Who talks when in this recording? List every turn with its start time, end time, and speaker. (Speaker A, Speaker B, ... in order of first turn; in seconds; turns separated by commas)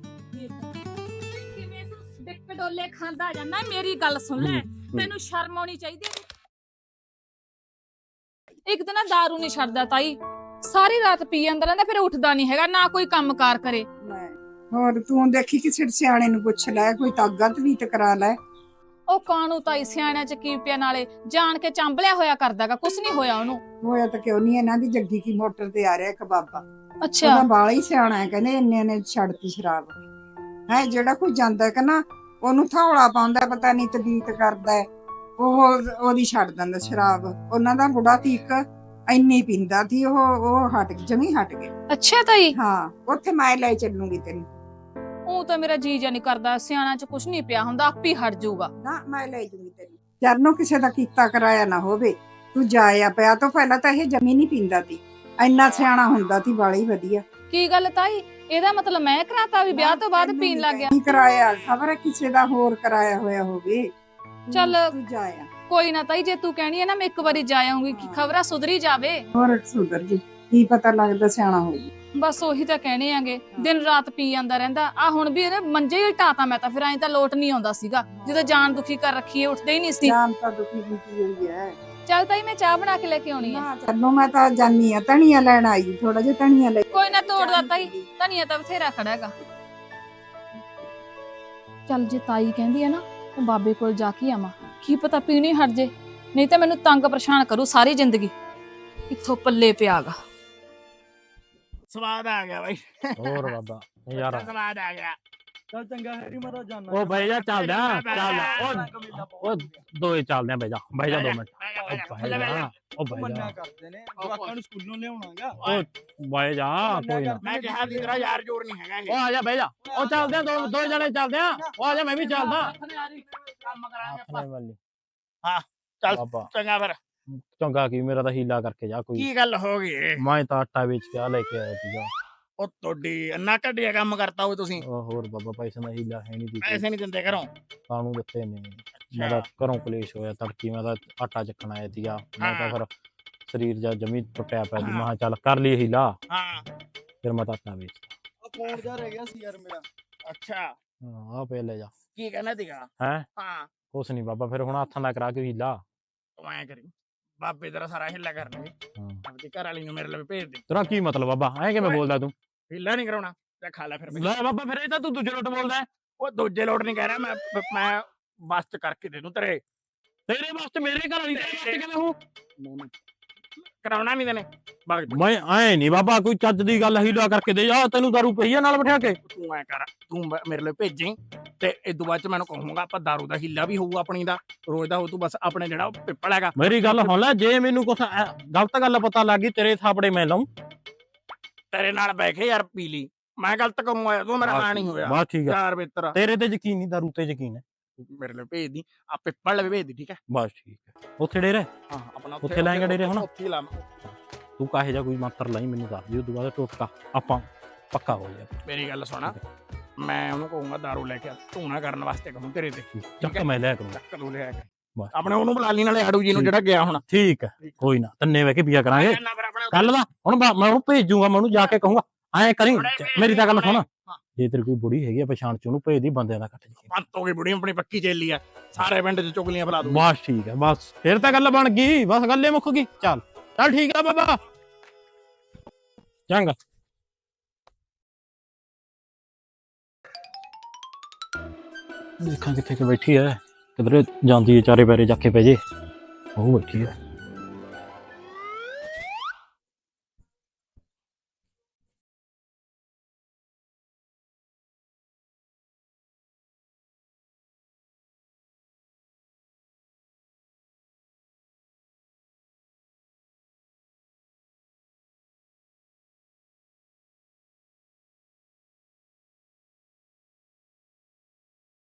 Speaker A: 0.3-6.2, Speaker B: 4.4-5.1, Speaker A: 8.7-13.9, Speaker C: 14.0-18.4, Speaker A: 19.1-23.6, Speaker C: 23.8-26.6, Speaker A: 27.1-27.4, Speaker C: 27.2-30.0, Speaker C: 30.7-34.8, Speaker C: 35.4-41.7, Speaker A: 41.9-42.5, Speaker C: 42.5-44.5, Speaker A: 45.3-48.7, Speaker C: 48.8-57.2, Speaker A: 57.5-61.0, Speaker C: 59.7-63.9, Speaker C: 64.5-65.5, Speaker A: 64.5-64.9, Speaker A: 65.7-69.3, Speaker C: 67.9-68.3, Speaker C: 69.3-71.9, Speaker A: 72.2-80.1, Speaker C: 78.2-78.8, Speaker C: 80.0-81.7, Speaker A: 82.1-83.7, Speaker C: 83.4-88.1, Speaker A: 86.9-89.3, Speaker A: 91.9-98.3, Speaker A: 99.1-100.2, Speaker D: 101.9-103.5, Speaker B: 103.2-104.5, Speaker D: 104.2-105.2, Speaker E: 105.7-107.2, Speaker B: 106.9-113.6, Speaker D: 107.3-108.8, Speaker E: 108.1-109.8, Speaker D: 111.1-112.7, Speaker E: 112.2-115.6, Speaker D: 114.2-114.6, Speaker D: 115.6-115.8, Speaker B: 115.6-117.5, Speaker E: 116.8-118.2, Speaker D: 117.4-119.2, Speaker B: 119.1-122.7, Speaker E: 119.9-121.0, Speaker E: 121.7-122.6, Speaker D: 122.9-124.4, Speaker B: 124.0-124.8, Speaker D: 125.4-127.0, Speaker B: 126.1-126.5, Speaker B: 127.3-129.3, Speaker D: 129.2-130.2, Speaker B: 130.2-132.1, Speaker D: 132.6-134.8, Speaker B: 134.8-136.8, Speaker D: 136.6-137.5, Speaker B: 137.9-142.9, Speaker D: 139.0-139.5, Speaker D: 142.4-142.8, Speaker B: 143.5-146.2, Speaker D: 144.8-145.1, Speaker D: 146.3-146.7, Speaker B: 147.2-148.1, Speaker E: 148.4-149.8, Speaker D: 150.2-150.7, Speaker B: 151.0-151.9, Speaker D: 152.2-153.7, Speaker B: 153.0-153.2, Speaker B: 153.9-155.8, Speaker D: 156.4-158.7, Speaker B: 159.0-159.2, Speaker D: 159.2-160.6, Speaker B: 160.7-162.3, Speaker D: 162.7-164.3, Speaker B: 164.1-165.9, Speaker D: 166.2-169.6, Speaker B: 170.3-172.2, Speaker D: 171.3-171.8, Speaker D: 172.6-172.9, Speaker D: 173.8-175.2, Speaker B: 175.1-179.2, Speaker D: 179.2-187.1, Speaker B: 186.6-190.5, Speaker D: 191.7-196.2, Speaker B: 194.4-195.6, Speaker B: 196.1-197.6, Speaker D: 198.0-200.2, Speaker B: 200.3-201.7, Speaker D: 201.9-203.8, Speaker B: 202.4-203.2, Speaker B: 204.6-208.6, Speaker D: 208.7-209.4, Speaker D: 210.0-217.0, Speaker B: 212.9-214.0, Speaker B: 216.3-219.2, Speaker D: 218.9-219.9, Speaker B: 219.7-223.9, Speaker D: 222.7-224.2, Speaker B: 224.4-226.9, Speaker D: 226.9-230.1, Speaker B: 229.8-234.4, Speaker B: 236.3-236.6, Speaker B: 242.2-245.6, Speaker B: 246.4-246.9